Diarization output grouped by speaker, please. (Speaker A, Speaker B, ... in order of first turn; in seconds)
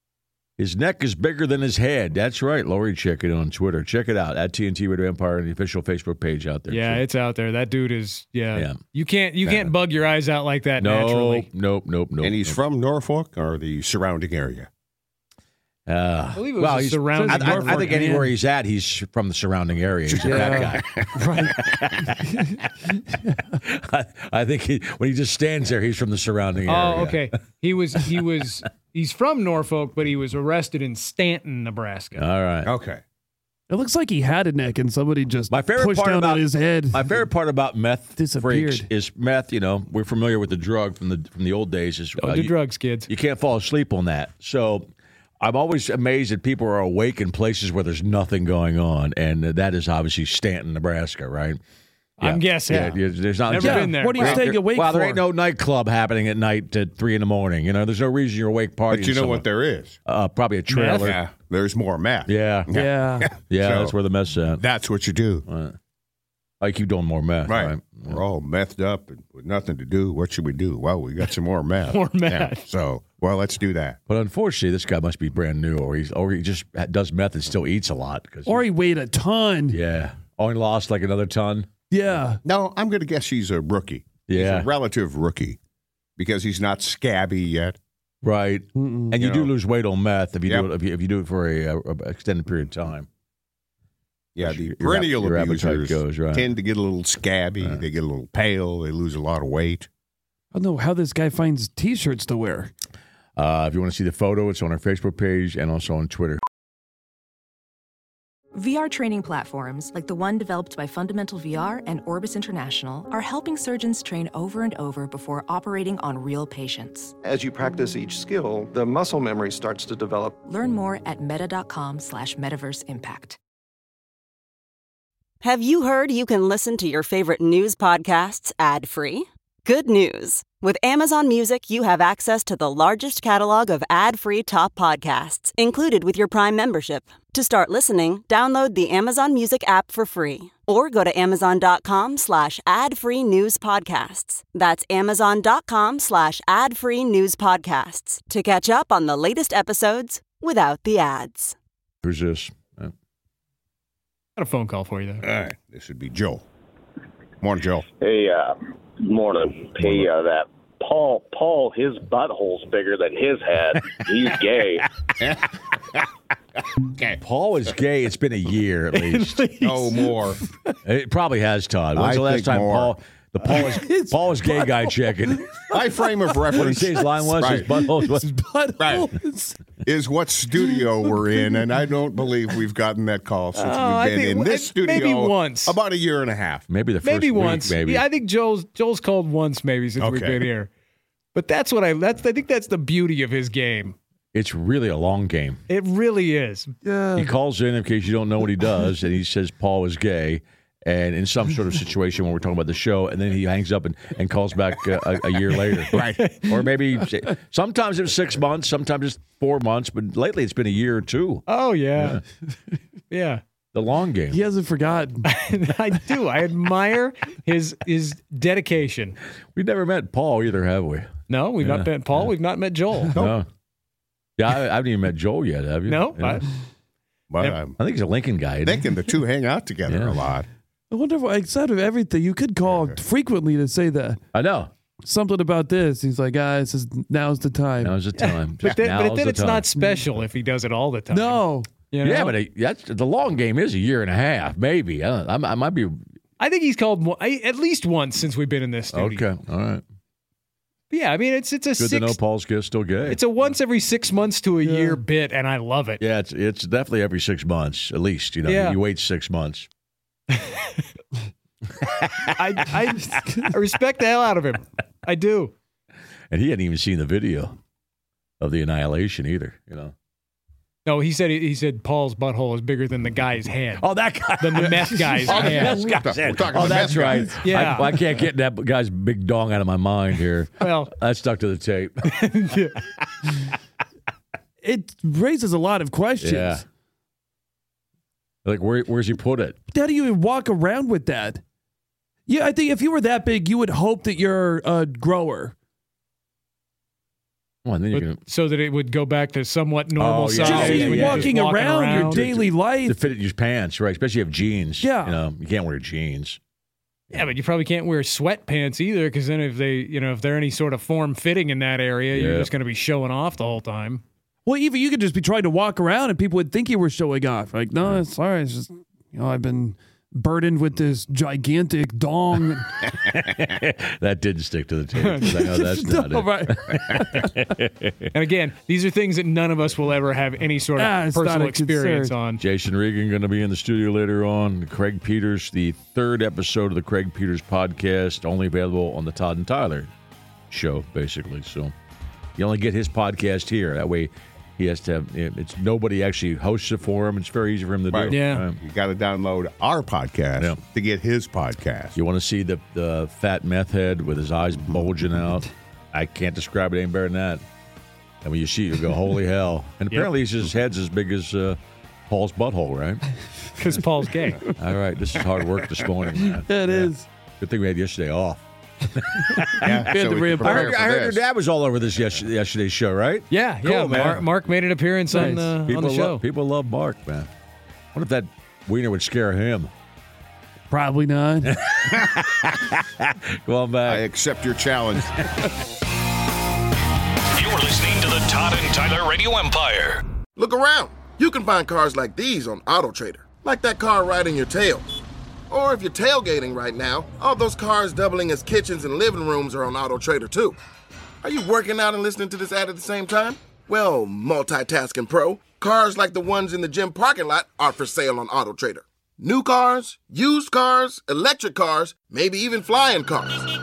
Speaker A: 0.6-7.0, 8.5-8.8, 10.8-12.6, 15.9-21.1, 21.6-22.0, 23.3-27.3, 32.1-32.7, 35.5-42.5, 43.1-51.6, 52.2-59.5, 60.1-61.2, 62.3-62.8, 63.5-64.6, 65.5-65.8, 66.6-68.2, 74.1-78.7, 79.7-81.7, 84.3-84.7, 88.2-93.1, 94.4-96.5, 103.4-106.4, 152.0-152.9, 159.8-160.1, 167.2-169.5, 170.8-175.5, 176.5-178.3, 186.7-188.1, 194.3-195.6, 197.2-211.4, 212.0-212.2, 213.7-214.4, 219.6-222.3, 223.1-223.5, 224.4-226.4, 227.8-228.9, 229.9-230.2, 234.3-234.7, 237.8-239.7, 242.0-246.0, 248.9-249.8, 251.8-253.2, 256.0-259.7, 266.3-267.6, 268.4-269.9, 273.8-282.2, 286.2-286.6, 288.4-289.6, 297.6-298.2, 300.0-306.4, 312.1-312.5, 322.9-328.1, 332.4-339.9, 340.5-341.7, 342.4-348.6, 352.0-357.4, 358.2-363.1, 364.5-369.8, 370.4-374.3, 375.7-377.3, 377.9-379.7, 381.5-384.1
Speaker B: 6.7-11.5, 16.4-18.1, 26.7-32.2, 42.2-43.1, 52.2-54.4, 60.7-61.2, 71.9-72.7, 154.4-155.2, 168.9-170.2, 183.6-185.8, 187.0-190.7, 191.3-194.0, 195.7-196.7, 205.9-206.5, 211.5-212.2, 213.1-213.4, 215.3-219.2, 221.3-223.1, 225.9-226.5, 238.2-242.4, 246.4-249.3, 250.9-252.2, 253.1-256.0, 258.5-258.8, 260.3-260.8, 262.4-265.6, 270.9-273.9, 274.4-275.8, 277.4-278.0, 280.6-280.9, 282.1-282.8, 297.9-302.2, 307.1-314.0, 328.1-332.4, 348.1-348.5, 363.6-364.5, 373.3-376.2
Speaker C: 12.2-14.7, 20.1-21.7, 32.6-33.0, 58.9-60.0, 61.0-64.0, 64.6-65.5, 67.5-74.0, 82.4-85.6, 86.2-87.8, 89.1-89.5, 94.3-99.9, 155.2-156.4, 157.4-157.9, 165.2-165.5, 169.6-170.4, 171.9-173.0, 175.7-177.7, 178.8-179.1, 179.8-186.7, 190.0-190.5, 205.9-206.2, 227.3-227.8, 228.6-230.5, 232.7-232.9, 275.3-277.4, 347.9-352.0, 369.6-371.2, 383.9-385.3
Speaker D: 17.1-18.3, 20.2-22.6, 33.7-37.2, 38.2-38.9, 53.6-55.2, 62.7-63.3, 78.5-79.8, 81.9-82.4, 88.8-89.1, 100.5-102.7, 173.5-175.8, 177.0-179.6, 180.6-181.4, 196.8-197.3, 214.3-215.3, 230.9-234.2, 235.0-237.9, 241.1-241.7, 254.6-255.0, 263.1-263.5, 275.4-275.7, 276.8-277.1, 284.6-286.6, 289.7-291.4, 292.3-295.6, 300.4-303.0, 304.8-305.2, 314.5-322.7, 325.2-327.3, 330.8-332.2, 366.2-367.1, 369.2-370.8, 375.1-375.5, 380.7-381.5
Speaker E: 108.5-117.2, 120.4-123.4
Speaker F: 117.2-120.4
Speaker G: 125.4-151.6
Speaker H: 158.0-164.9
Speaker I: 387.4-390.0
Speaker J: 390.4-394.9, 395.5-400.6, 401.2-413.4